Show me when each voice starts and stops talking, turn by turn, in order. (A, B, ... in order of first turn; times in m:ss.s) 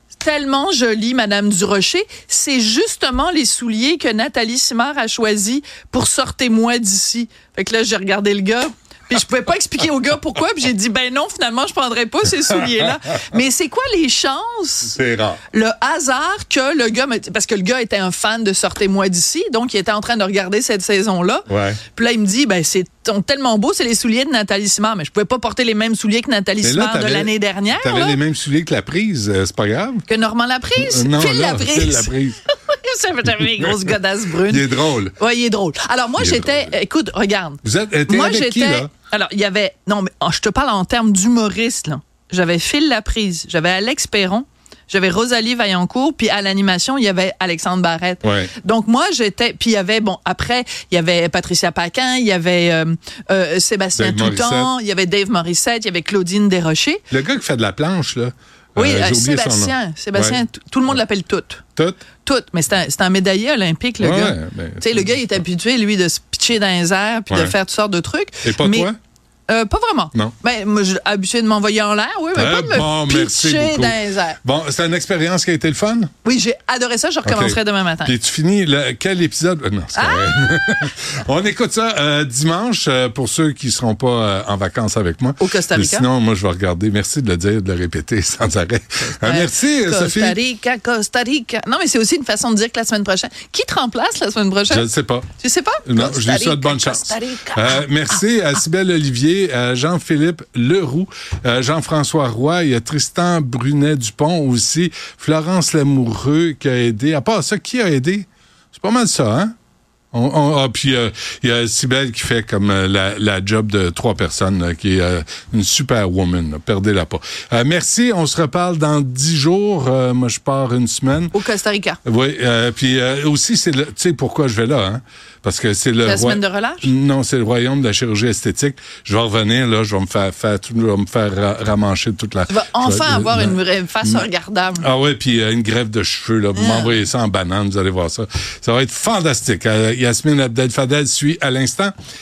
0:00.2-0:15.0 A
0:14.9-0:15.4 B
0:15.5-0:28.2 A
0:21.5-0:21.8 B
0:26.6-0:30.0 B
0:30.1-0:57.0 A
0:30.8-0:32.4 B
0:33.4-0:35.2 B
0:36.2-0:36.7 B
0:37.6-0:38.9 B
0:48.2-0:48.5 B
0:54.0-0:54.7 B
0:57.1-1:00.4 B
0:58.8-1:01.6 A
1:02.2-1:08.9 A
1:04.0-1:05.2 B
1:07.3-1:07.5 B
1:08.4-1:08.9 B
1:09.5-1:14.4 A
1:12.3-1:16.1 B
1:16.2-1:18.1 A
1:17.2-1:30.4 B
1:19.9-1:20.9 A
1:25.4-1:26.1 A
1:29.2-1:34.9 A
1:34.7-1:35.3 B
1:35.4-1:38.2 A
1:35.8-1:49.5 B
1:50.1-2:01.3 B
2:01.3-2:02.0 A
2:02.0-2:14.2 B
2:06.0-2:06.9 A
2:12.5-2:14.9 A
2:14.8-2:21.9 B
2:16.5-2:17.0 A